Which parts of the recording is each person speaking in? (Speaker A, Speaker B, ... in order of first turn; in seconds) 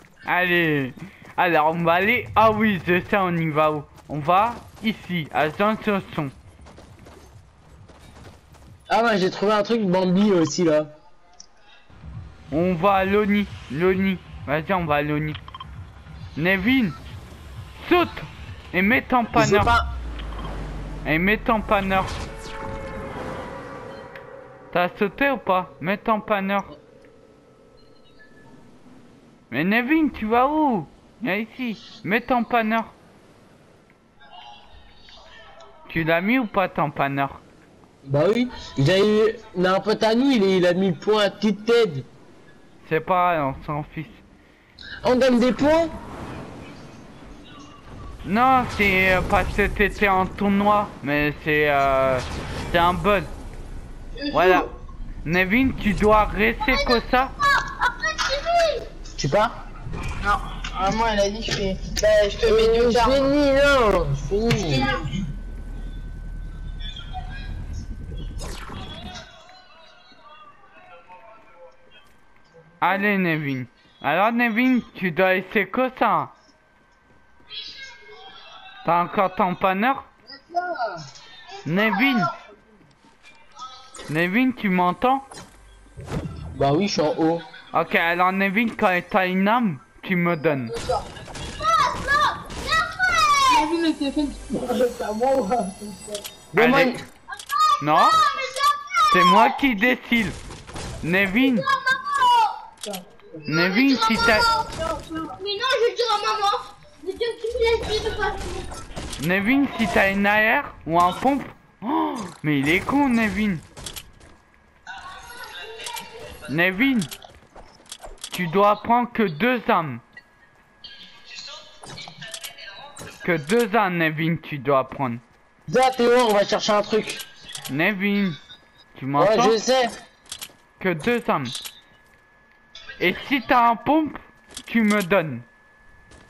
Speaker A: 0.2-6.3, 12.5-15.4, 16.4-17.0, 17.7-19.7, 21.0-22.1, 24.7-26.7, 29.5-32.9, 35.9-37.4, 42.8-44.2, 48.2-53.3, 54.3-54.7, 55.2-57.3, 72.8-76.3, 78.8-80.1, 81.6-82.3, 84.1-85.2, 87.7-90.7, 96.6-97.0, 97.8-98.2, 99.1-100.3, 101.0-101.7, 103.5-104.5, 109.2-113.6, 116.5-117.1, 118.3-120.0, 123.2-125.2, 127.7-128.4, 128.9-129.6, 130.8-131.5, 133.0-135.4
Speaker B: 8.9-10.9, 19.3-19.8, 38.0-42.1, 45.0-45.9, 59.2-59.5, 62.3-64.9, 86.5-87.4, 96.5-97.0, 125.7-127.2, 129.2-129.9
Speaker C: 56.6-58.9, 64.7-65.1, 91.5-93.7, 97.5-99.6, 101.4-102.6, 103.5-104.7, 105.3-108.7
Speaker D: 60.2-63.3, 93.5-96.2